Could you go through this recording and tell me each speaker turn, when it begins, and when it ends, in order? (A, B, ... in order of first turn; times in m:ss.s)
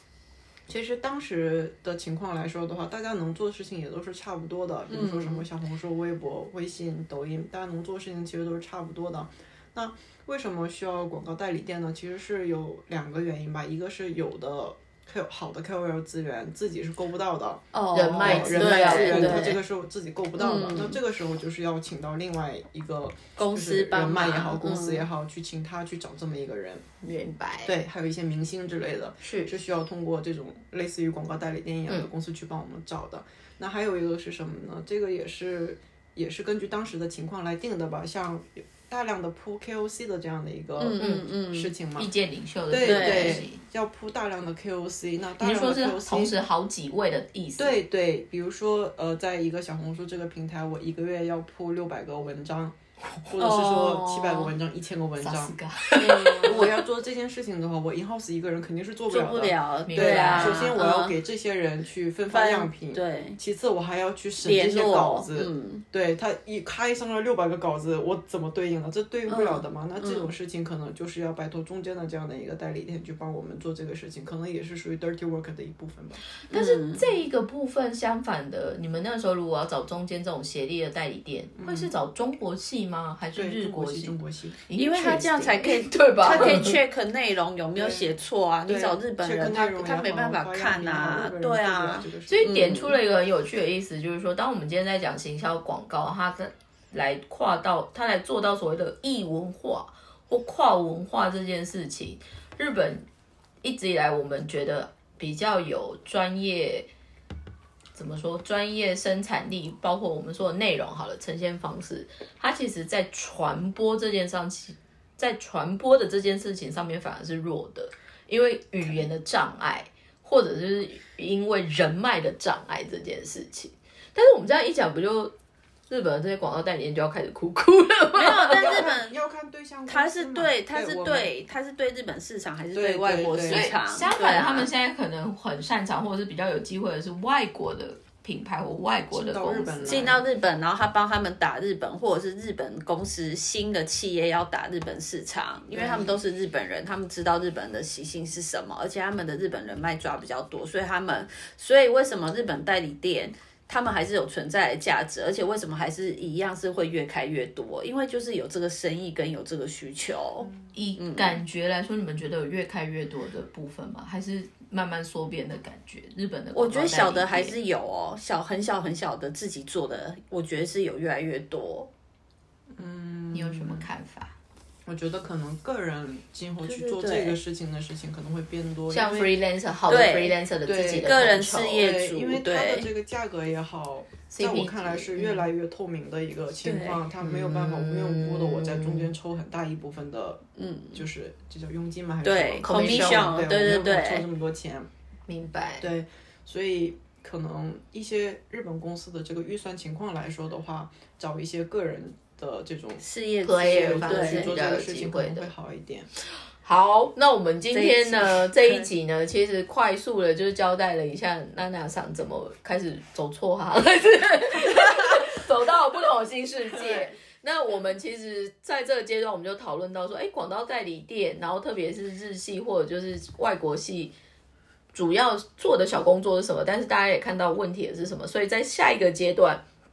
0:00.7-0:17.6 A
0:04.9-0:05.4 B
0:17.7-0:19.6 B
0:17.9-0:19.5 C
0:18.2-0:26.9 A
0:20.4-0:21.0 B
0:23.4-0:25.1 B
0:27.0-0:27.7 C
0:27.6-0:42.1 A
0:29.2-0:29.5 C
0:40.8-0:41.7 B
0:41.0-0:41.2 C
0:42.0-0:43.6 C
0:42.7-0:46.4 A
0:42.8-0:43.4 B
0:45.4-0:47.8 C
0:47.6-1:16.2 A
0:53.4-0:54.5 B
0:55.2-0:56.8 C
0:56.0-0:56.8 B
0:59.1-1:01.2 B
0:59.9-1:00.7 C
1:02.3-1:03.4 B
1:04.4-1:05.8 B
1:09.3-1:10.3 B
1:16.5-1:24.2 C
1:16.5-1:17.1 B
1:21.5-1:21.9 A
1:23.3-1:24.6 A
1:24.7-1:26.8 C
1:24.7-1:33.0 B
1:26.2-1:26.6 A
1:27.7-1:28.1 A
1:28.6-1:32.8 A
1:32.3-1:43.0 C
1:43.6-1:46.9 C
1:47.9-2:05.3 C
2:05.9-2:08.9 C
2:08.2-2:09.2 B
2:08.5-2:11.3 A
2:09.9-2:14.7 B
2:12.7-2:13.7 A
2:13.5-2:20.2 C
2:19.1-2:20.2 A
2:19.8-2:41.4 B
2:25.7-2:26.2 A
2:40.7-2:47.6 C
2:46.5-2:51.9 B
2:52.7-2:53.9 A
2:53.3-2:54.3 C
2:54.8-2:59.4 A
2:56.6-2:57.4 B
2:58.9-3:01.8 C
2:59.9-3:00.4 B
3:00.6-3:14.9 A
3:01.0-3:02.9 B
3:04.3-3:05.5 C
3:06.6-3:07.0 B
3:07.2-3:09.1 C
3:10.6-3:11.0 B
3:12.2-3:14.2 B
3:12.6-3:13.4 C
3:15.3-3:15.9 C
3:15.8-3:23.0 A
3:23.0-3:24.8 B
3:23.4-3:25.5 C
3:23.6-3:26.1 A
3:26.6-3:44.1 C
3:27.7-3:28.9 B
3:36.7-3:37.1 A
3:44.9-3:49.6 C